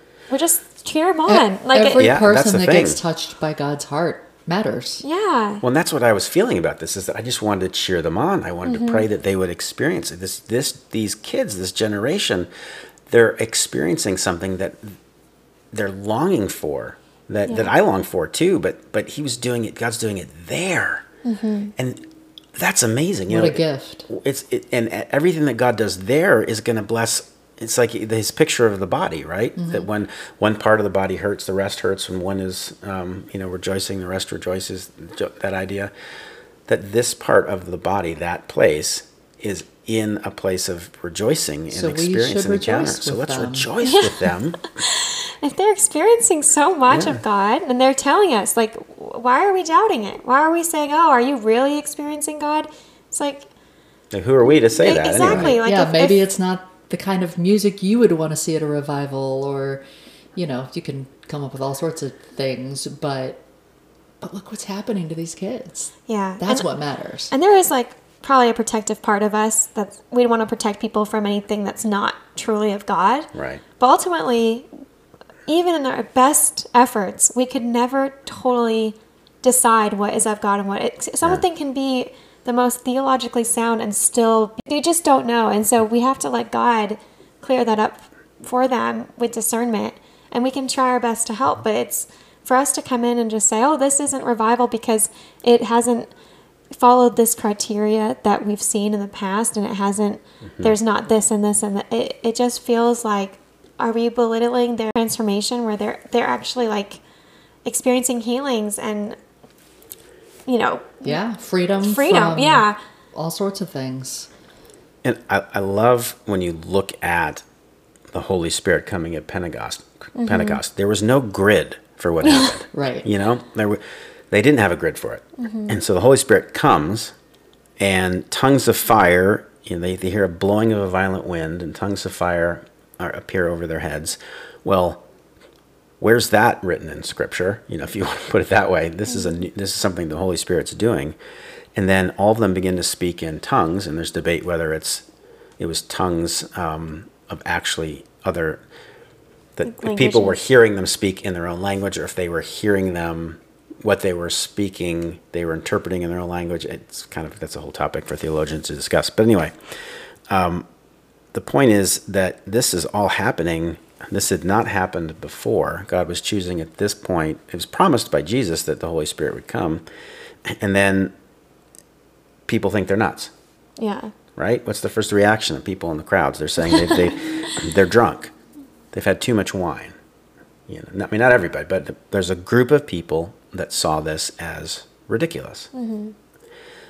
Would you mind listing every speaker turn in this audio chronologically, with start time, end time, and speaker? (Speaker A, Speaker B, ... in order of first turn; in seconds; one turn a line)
Speaker A: 0.3-2.1
Speaker B: 1.3-5.0
Speaker C: 2.0-3.0
Speaker A: 5.0-5.6
Speaker C: 5.6-12.5
Speaker A: 8.7-9.1
Speaker C: 13.1-15.0
Speaker C: 15.7-21.1
Speaker A: 17.5-17.7
Speaker A: 21.2-21.7
Speaker C: 21.8-22.0
Speaker C: 22.6-35.9
Speaker B: 23.3-24.1
Speaker B: 29.6-29.9
Speaker C: 36.7-44.7
Speaker B: 41.7-43.7
Speaker A: 43.8-53.5
Speaker C: 46.9-47.2
Speaker C: 54.1-55.5
Speaker A: 54.8-56.2
Speaker B: 55.2-59.8
Speaker B: 60.4-63.4
Speaker B: 64.2-67.3
Speaker A: 66.1-66.7
Speaker A: 67.3-74.7
Speaker C: 73.3-73.6
Speaker A: 75.5-96.1
Speaker A: 96.7-107.0
Speaker A: 107.7-109.2
Speaker A: 110.5-111.2
Speaker B: 111.0-114.3
Speaker A: 111.8-112.8
Speaker C: 115.0-117.4
Speaker C: 118.1-127.1
Speaker A: 120.2-120.6
Speaker A: 122.2-122.5
Speaker B: 122.7-123.1
Speaker A: 125.4-125.8
Speaker C: 127.8-135.0
Speaker C: 136.0-141.2
Speaker C: 141.8-145.1
Speaker C: 145.6-148.6
Speaker C: 149.6-159.5
Speaker A: 149.7-150.4
Speaker C: 160.3-160.7
Speaker C: 161.3-169.8
Speaker C: 170.5-171.1
Speaker C: 172.5-173.3
Speaker A: 173.8-174.1
Speaker C: 174.4-178.3
Speaker A: 176.7-177.2
Speaker C: 178.9-180.0
Speaker C: 180.7-185.7
Speaker A: 185.7-186.2